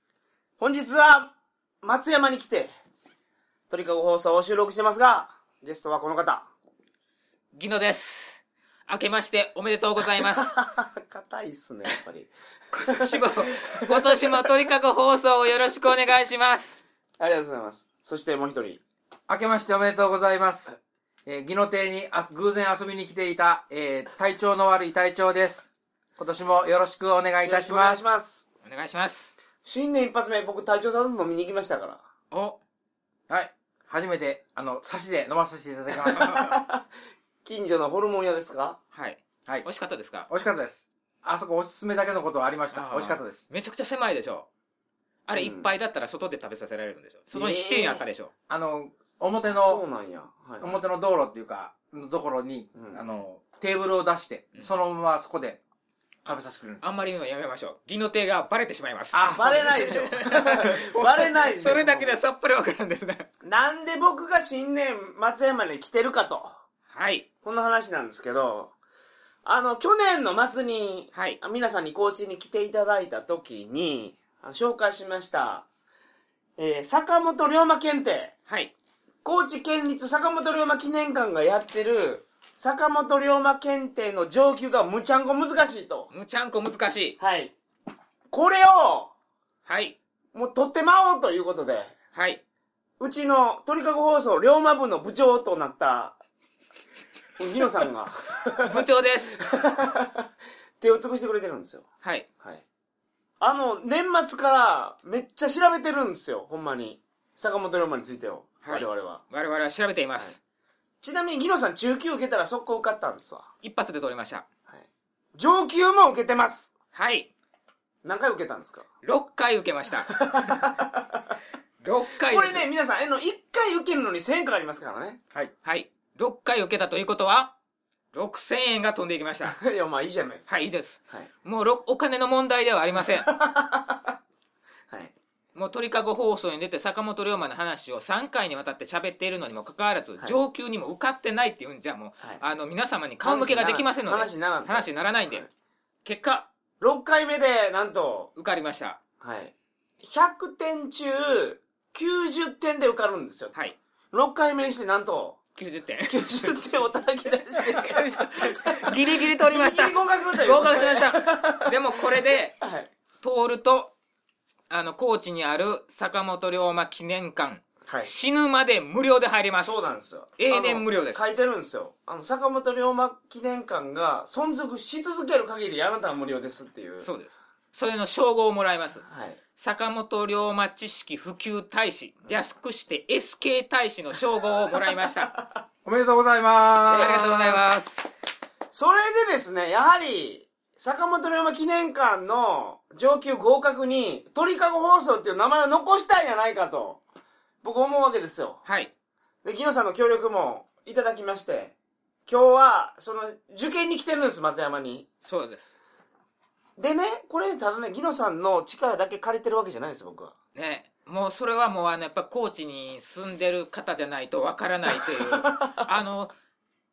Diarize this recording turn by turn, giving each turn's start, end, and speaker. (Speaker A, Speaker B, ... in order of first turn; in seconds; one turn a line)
Speaker A: 0.6-2.7
Speaker A: 3.7-6.5
Speaker B: 7.5-10.5
Speaker A: 10.2-14.3
Speaker B: 12.7-16.8
Speaker A: 17.2-18.8
Speaker C: 19.3-28.1
Speaker A: 27.4-28.4
Speaker B: 28.6-29.3
Speaker A: 29.6-32.0
Speaker B: 32.3-32.6
Speaker C: 33.3-36.6
Speaker A: 36.4-36.8
Speaker A: 37.5-38.8
Speaker B: 38.9-40.3
Speaker C: 40.3-43.5
Speaker B: 42.7-44.5
Speaker B: 45.3-48.3
Speaker A: 45.4-45.7
Speaker A: 47.3-48.0
Speaker C: 48.5-49.8
Speaker A: 49.5-50.7
Speaker C: 50.6-55.6
Speaker A: 52.8-53.0
Speaker C: 56.2-56.9
Speaker B: 56.2-63.3
Speaker C: 59.1-60.7
Speaker A: 59.4-62.2
Speaker A: 63.4-66.5
Speaker B: 66.9-67.3
Speaker A: 67.4-68.7
Speaker A: 69.5-75.7
Speaker B: 71.1-71.4
Speaker A: 76.6-78.3
Speaker B: 78.5-78.7
Speaker A: 79.2-86.1
Speaker B: 86.1-87.2
Speaker A: 87.2-87.5
Speaker A: 88.3-89.1
Speaker B: 89.7-90.0
Speaker A: 90.3-92.0
Speaker B: 92.1-92.4
Speaker A: 93.0-96.2
Speaker A: 97.4-100.3
Speaker B: 98.7-99.3
Speaker A: 100.8-101.9
Speaker B: 102.0-102.3
Speaker A: 103.4-109.2
Speaker B: 108.6-110.4
Speaker A: 111.0-113.5
Speaker B: 113.6-114.5
Speaker A: 114.7-116.7
Speaker B: 116.9-117.3
Speaker A: 118.0-118.8
Speaker B: 119.0-120.7
Speaker A: 120.1-121.2
Speaker B: 121.8-122.7
Speaker A: 122.2-125.2
Speaker B: 125.6-127.5
Speaker B: 128.1-129.6
Speaker A: 129.5-130.5
Speaker B: 130.5-133.3
Speaker A: 133.2-134.1
Speaker B: 135.6-145.5
Speaker A: 143.2-145.5
Speaker B: 146.1-146.5
Speaker A: 146.8-148.3
Speaker B: 148.4-149.0
Speaker A: 149.2-153.5
Speaker A: 154.1-155.4
Speaker B: 155.6-156.5
Speaker A: 156.1-162.9
Speaker B: 157.9-162.6
Speaker B: 163.2-163.9
Speaker B: 164.7-169.7
Speaker A: 167.9-168.1
Speaker A: 169.6-177.1
Speaker B: 170.4-171.2
Speaker B: 177.0-179.1
Speaker A: 179.1-179.4
Speaker B: 179.6-185.3
Speaker C: 185.8-187.3
Speaker A: 186.9-187.6
Speaker B: 186.9-188.1
Speaker A: 188.7-197.0
Speaker A: 197.6-198.6
Speaker B: 198.7-198.9
Speaker A: 199.4-201.8
Speaker A: 202.3-205.1
Speaker B: 205.2-205.8
Speaker A: 206.8-210.3
Speaker B: 210.6-216.3
Speaker A: 215.4-215.8